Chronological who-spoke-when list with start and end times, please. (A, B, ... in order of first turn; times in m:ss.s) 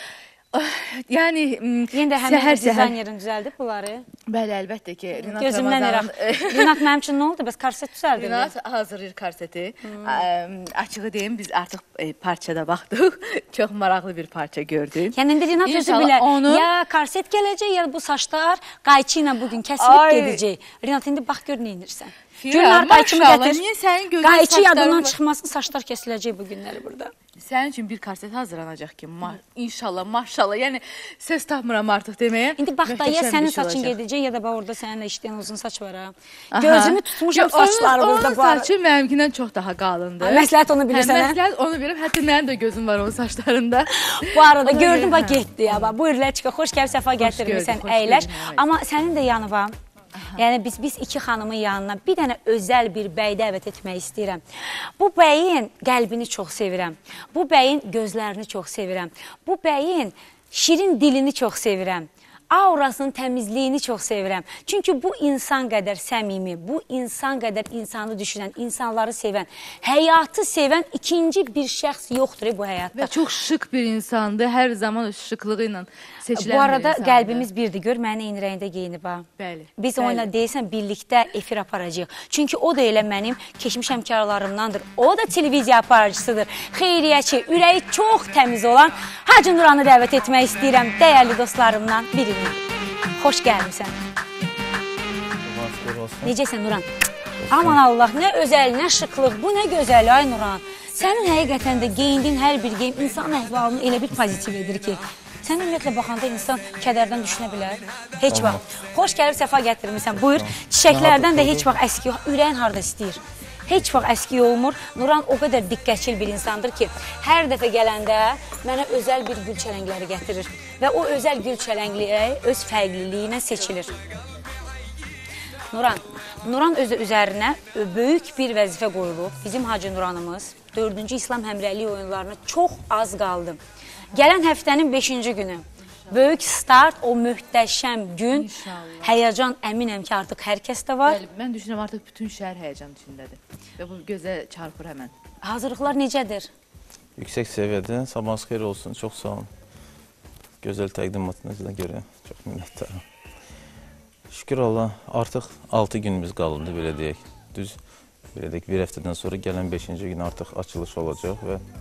0:00.5-0:03.0 A
0:01.9-0:04.1 B
0:04.3-0:06.8 A
0:05.2-0:08.5 B
0:08.1-0:16.7 A
0:09.8-0:10.2 B
0:15.1-0:23.6 B
0:19.8-0:20.4 A
0:22.4-0:25.2 A
0:24.2-0:27.1 B
0:27.4-0:34.0 A
0:32.6-0:38.7 B
0:36.5-0:46.0 A
0:40.2-0:41.4 B
0:43.9-0:49.8 B
0:47.2-0:48.6 A
0:50.2-0:50.4 A
0:50.3-1:13.1 B
1:13.0-1:17.5 A
1:16.3-1:32.6 B
1:19.4-1:20.3 A
1:33.2-1:34.0 B
1:35.4-1:36.3 C
1:36.2-1:36.9 B
1:37.4-1:37.8 C
1:37.5-2:03.9 B
1:48.3-1:48.6 C
1:50.2-1:51.7 C
2:05.7-2:13.6 B
2:14.1-2:21.2 B
2:18.3-2:19.2 A
2:21.0-2:25.1 A
2:25.4-2:26.5 B
2:27.2-2:29.5 C
2:30.6-2:33.0 C
2:34.3-2:37.8 C
2:38.3-2:41.6 C